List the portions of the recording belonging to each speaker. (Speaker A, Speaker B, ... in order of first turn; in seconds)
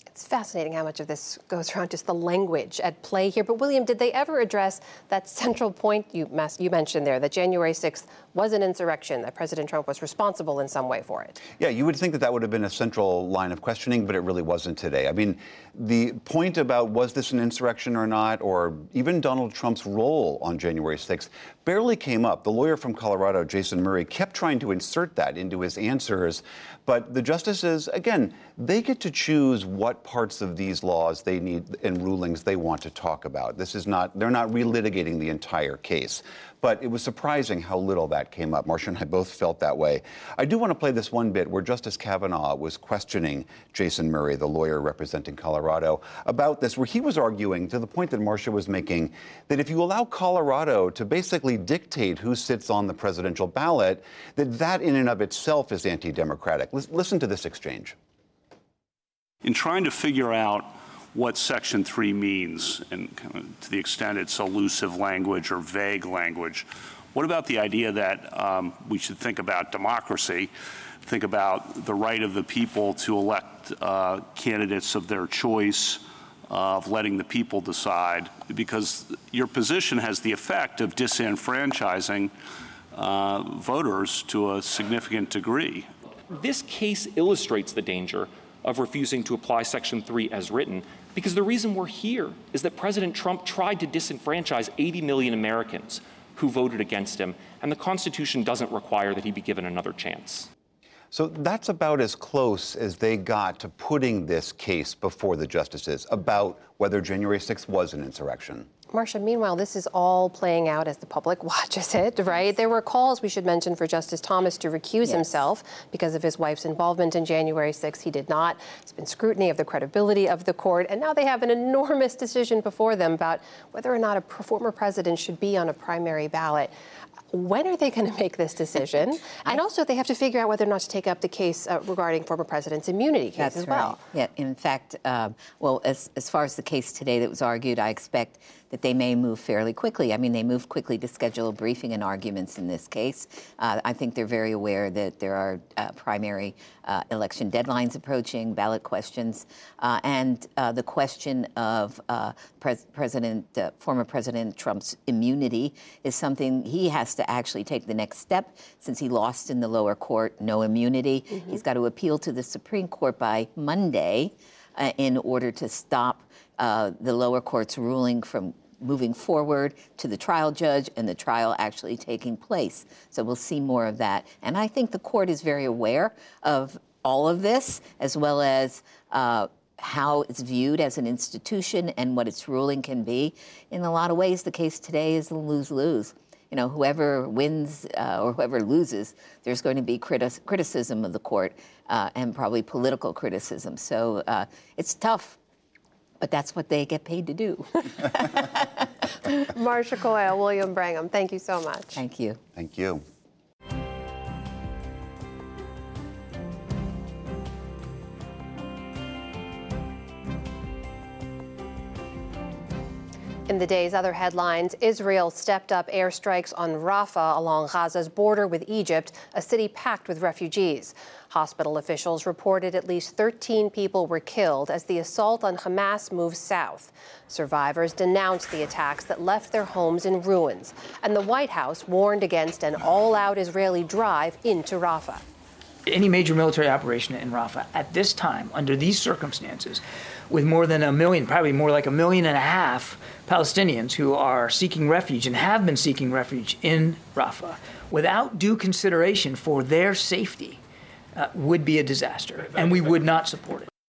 Speaker A: 0.1-11.4, 108.9-126.7, 127.3-134.0, 199.5-202.0, 213.5-235.2
Speaker B: 11.6-58.0, 101.1-108.7, 202.6-203.0
Speaker C: 59.4-70.5, 71.0-82.3, 82.9-85.9
Speaker D: 86.3-100.5
Speaker E: 133.4-195.4, 196.2-198.7, 201.9-202.4
Speaker F: 235.8-250.6, 251.2-253.7